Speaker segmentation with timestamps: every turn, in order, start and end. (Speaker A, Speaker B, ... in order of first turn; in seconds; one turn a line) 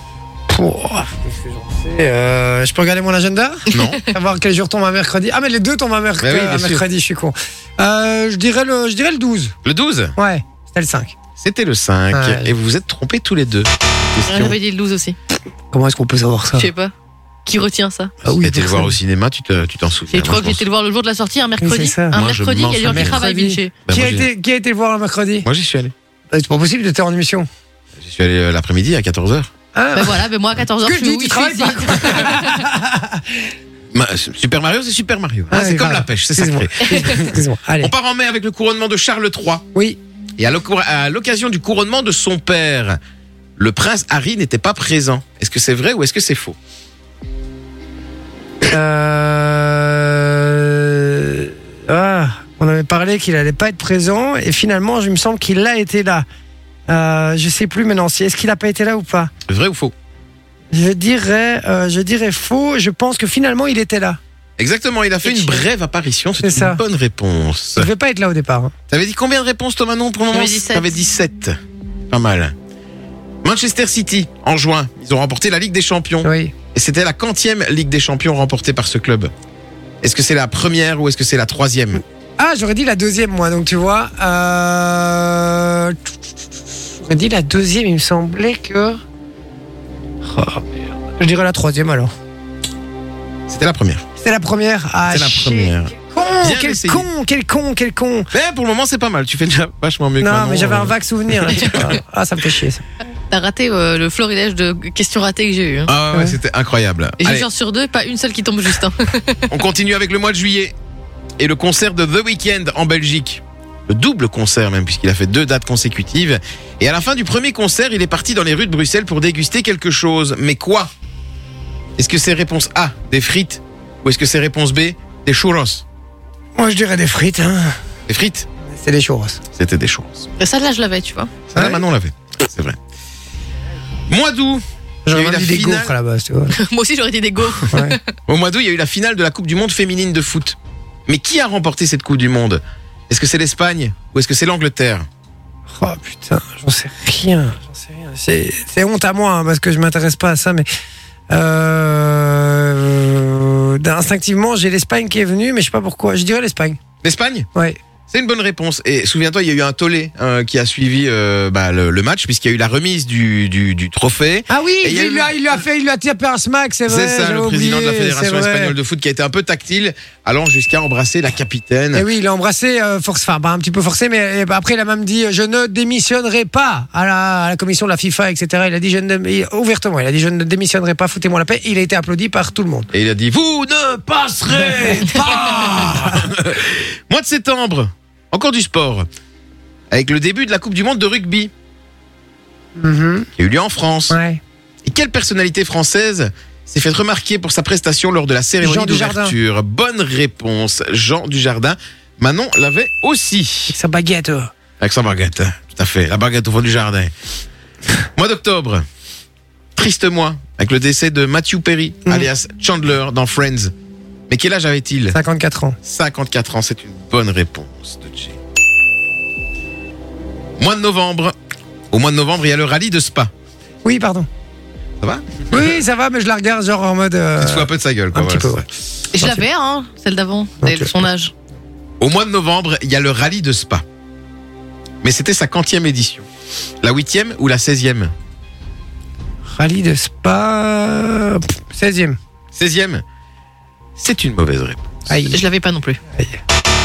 Speaker A: 0.5-9.5
Speaker B: 3.7-4.0
Speaker B: 6.2-6.8
Speaker B: 9.6-10.1
Speaker A: 10.2-11.1
Speaker B: 11.4-14.5
Speaker A: 12.1-12.5
Speaker C: 14.3-15.2
Speaker A: 15.7-16.7
Speaker C: 16.6-16.9
Speaker C: 17.4-18.1
Speaker B: 18.2-20.6
Speaker A: 18.2-18.9
Speaker C: 20.1-23.7
Speaker A: 21.6-22.1
Speaker B: 22.1-23.2
Speaker A: 22.9-25.4
Speaker B: 23.9-24.3
Speaker B: 25.4-25.9
Speaker A: 26.3-27.5
Speaker B: 28.0-29.5
Speaker A: 29.7-30.2
Speaker C: 29.9-32.5
Speaker A: 30.8-33.5
Speaker B: 33.9-39.6
Speaker A: 35.5-37.9
Speaker B: 40.4-43.0
Speaker B: 43.6-46.6
Speaker A: 48.7-56.2
Speaker A: 56.9-59.3
Speaker B: 59.5-59.9
Speaker A: 60.7-64.2
Speaker B: 64.6-67.9
Speaker C: 65.2-65.7
Speaker A: 66.4-66.8
Speaker A: 67.8-68.7
Speaker B: 68.9-71.6
Speaker C: 70.3-70.9
Speaker B: 72.1-72.5
Speaker B: 73.4-79.3
Speaker A: 76.2-76.5
Speaker B: 80.0-82.0
Speaker A: 82.4-86.1
Speaker A: 86.8-89.0
Speaker A: 90.2-92.1
Speaker B: 93.5-94.0
Speaker A: 94.2-98.3
Speaker B: 95.1-97.1
Speaker B: 98.3-101.9
Speaker A: 100.2-102.8
Speaker C: 103.3-105.9
Speaker B: 105.9-107.5
Speaker A: 106.1-106.4
Speaker C: 107.2-109.5
Speaker B: 109.5-110.7
Speaker B: 111.4-120.9
Speaker B: 122.0-125.8
Speaker A: 126.5-127.8
Speaker B: 128.1-128.5
Speaker A: 128.7-129.4
Speaker B: 129.5-130.3
Speaker C: 130.4-131.3
Speaker B: 131.5-132.8
Speaker A: 131.5-131.8
Speaker B: 134.1-135.9
Speaker A: 135.1-136.6
Speaker C: 136.5-138.0
Speaker A: 137.7-138.0
Speaker B: 138.3-145.1
Speaker A: 145.7-150.7
Speaker A: 151.3-156.8
Speaker B: 157.0-157.5
Speaker B: 158.1-165.3
Speaker A: 164.5-168.7
Speaker B: 166.9-172.1
Speaker A: 171.9-182.9
Speaker B: 182.9-189.1
Speaker A: 184.5-186.3
Speaker B: 189.9-191.5
Speaker A: 192.8-193.3
Speaker B: 193.4-194.2
Speaker A: 194.1-194.4
Speaker B: 194.8-203.8
Speaker A: 198.6-199.4
Speaker A: 203.7-204.5
Speaker B: 204.8-207.1
Speaker B: 208.2-208.8
Speaker B: 209.8-213.7
Speaker B: 214.3-215.2
Speaker A: 215.1-215.8
Speaker B: 215.8-218.4
Speaker B: 220.6-221.3
Speaker B: 221.9-223.3
Speaker A: 223.8-224.3
Speaker B: 225.0-225.5
Speaker A: 225.5-228.6
Speaker B: 227.4-228.6
Speaker C: 229.1-231.3
Speaker A: 229.2-229.4
Speaker A: 230.6-230.9
Speaker B: 232.0-233.8
Speaker B: 235.0-236.2
Speaker B: 236.8-238.1
Speaker A: 239.5-242.2
Speaker B: 242.5-243.0
Speaker B: 244.0-245.0
Speaker A: 245.1-245.4
Speaker C: 245.3-246.0